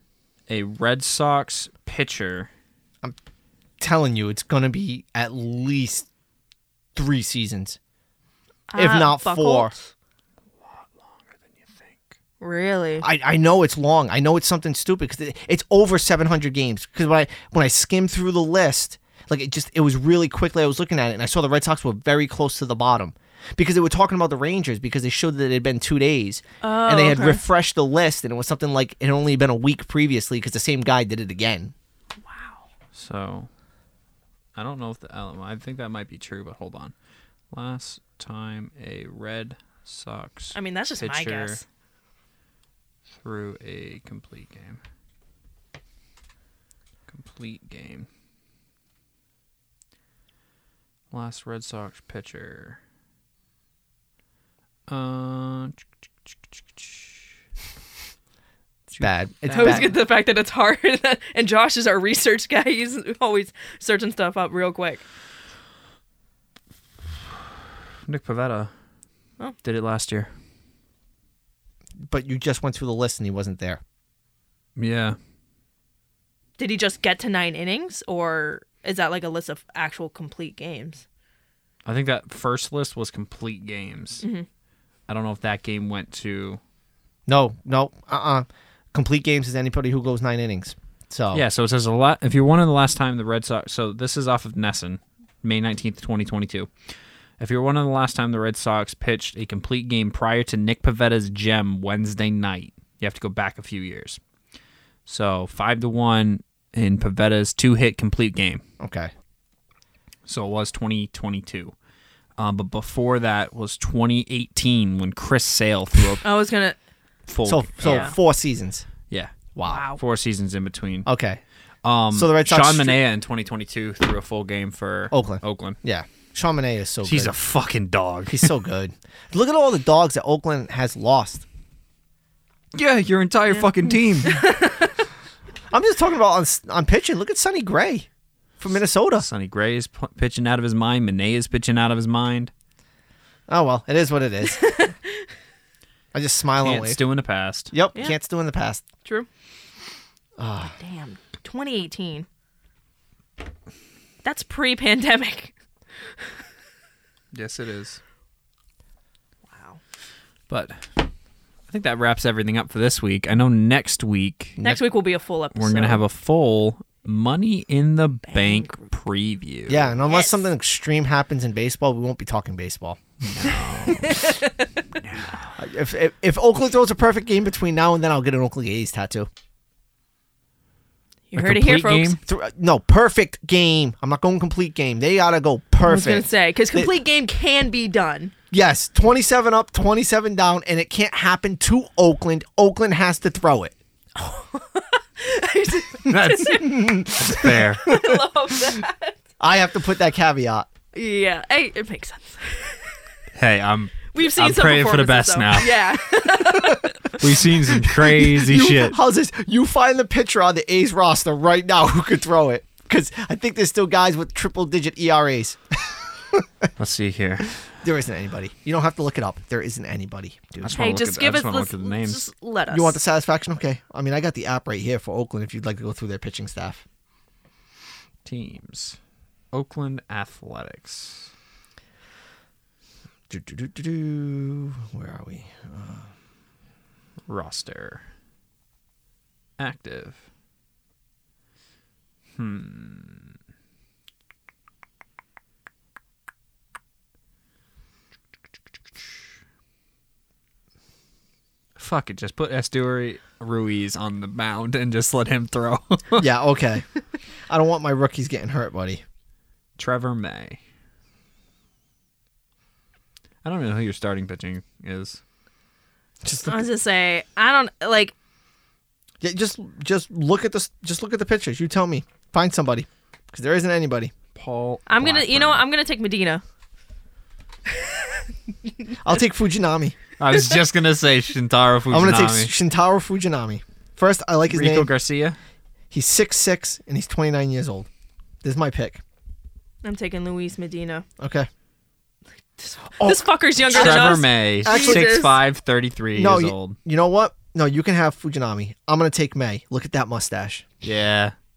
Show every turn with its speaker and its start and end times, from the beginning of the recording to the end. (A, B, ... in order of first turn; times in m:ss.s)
0:00.5-0:02.5 A
0:03.8-0:06.1 B
0:07.0-0:07.8 B
0:08.7-0:09.9 C
0:08.8-0:09.7 B
0:10.6-0:12.1 A
0:12.4-0:13.0 C
0:13.0-0:31.7 B
0:26.6-0:27.4 C
0:32.2-0:32.7 C
0:32.9-0:33.5 A
0:34.6-0:36.9 A
0:37.5-0:41.6 A
0:40.6-0:41.6 C
0:43.2-0:44.8 A
0:47.1-0:48.1 A
0:51.1-0:52.8 A
0:54.9-0:57.2 A
0:58.9-1:00.0 A
0:59.0-1:00.0 B
0:59.5-1:05.0 C
1:08.0-1:08.7 A
1:09.6-1:10.3 A
1:12.0-1:13.8 B
1:14.8-1:15.2 A
1:16.6-1:21.0 C
1:21.8-1:24.2 A
1:25.1-1:26.6 A
1:27.3-1:31.4 B
1:31.3-1:36.7 A
1:37.4-1:44.2 A
1:45.1-1:48.6 A
1:48.8-1:49.1 B
1:50.3-1:51.8 A
1:52.4-1:56.2 A
1:56.2-1:56.8 C
1:57.3-1:58.2 A
1:57.4-1:58.9 B
1:57.8-1:58.2 C
1:59.1-1:59.4 A
1:59.6-1:59.9 B
1:59.6-2:00.0 C
2:00.0-2:01.1 A
2:01.1-2:01.4 B
2:01.8-2:05.8 A
2:02.1-2:03.0 B
2:05.1-2:07.3 B
2:07.0-2:08.5 A
2:08.3-2:11.5 B
2:12.7-2:14.4 A
2:14.2-2:14.9 C
2:15.7-2:18.1 B
2:18.6-2:19.3 B
2:19.2-2:22.5 A
2:23.5-2:24.9 B
2:24.5-2:25.1 C
2:26.1-2:27.0 B
2:26.6-2:27.7 A
2:27.7-2:28.8 B
2:30.4-2:30.8 B
2:30.8-2:32.3 C
2:34.2-2:35.5 C
2:37.3-2:38.0 A
2:39.5-2:39.8 C
2:40.5-2:41.0 A
2:41.7-2:44.6 A
2:44.6-2:46.0 C
2:45.6-2:49.9 A
2:48.3-2:48.9 C
2:49.7-2:53.0 B
2:50.1-2:50.4 C
2:53.2-2:54.4 A
2:53.9-2:54.8 C
2:55.0-2:55.5 A
2:55.6-2:59.3 B
3:01.3-3:02.2 C
3:01.4-3:02.2 A
3:02.2-3:06.9 B
3:05.8-3:08.3 C
3:08.5-3:13.8 B
3:14.2-3:19.2 C
3:16.1-3:18.8 B
3:16.1-3:17.8 A
3:19.4-3:20.7 B
3:20.9-3:22.9 C
3:23.3-3:25.8 A
3:24.1-3:27.3 C
3:26.3-3:26.9 B
3:27.2-3:29.0 A
3:27.7-3:36.7 B
3:36.8-3:37.6 A
3:37.7-3:40.8 B
3:40.6-3:42.3 A
3:40.7-3:43.0 C
3:42.7-3:46.8 B
3:48.2-3:49.0 A
3:49.5-3:51.3 A
3:53.3-3:56.1 B
3:57.3-3:58.0 A
3:59.6-4:00.2 A
4:02.4-4:03.3 A
4:11.8-4:16.2 A
4:16.2-4:16.9 B
4:17.5-4:19.0 B
4:19.8-4:20.6 A
4:23.4-4:25.2 A
4:26.2-4:26.7 B
4:26.5-4:28.1 C
4:29.2-4:34.1 B
4:34.4-4:35.6 A
4:34.9-4:36.4 C
4:39.0-4:40.0 B
4:40.2-4:42.5 A
4:41.9-4:44.9 B
4:44.5-4:45.4 A
4:45.9-4:47.9 B
4:48.4-4:49.0 B
4:49.8-4:51.1 C
4:51.2-4:51.5 B
4:52.6-4:55.4 C
4:53.0-4:55.2 B
4:53.7-4:56.8 A
4:56.2-5:00.6 B
5:00.8-5:01.3 A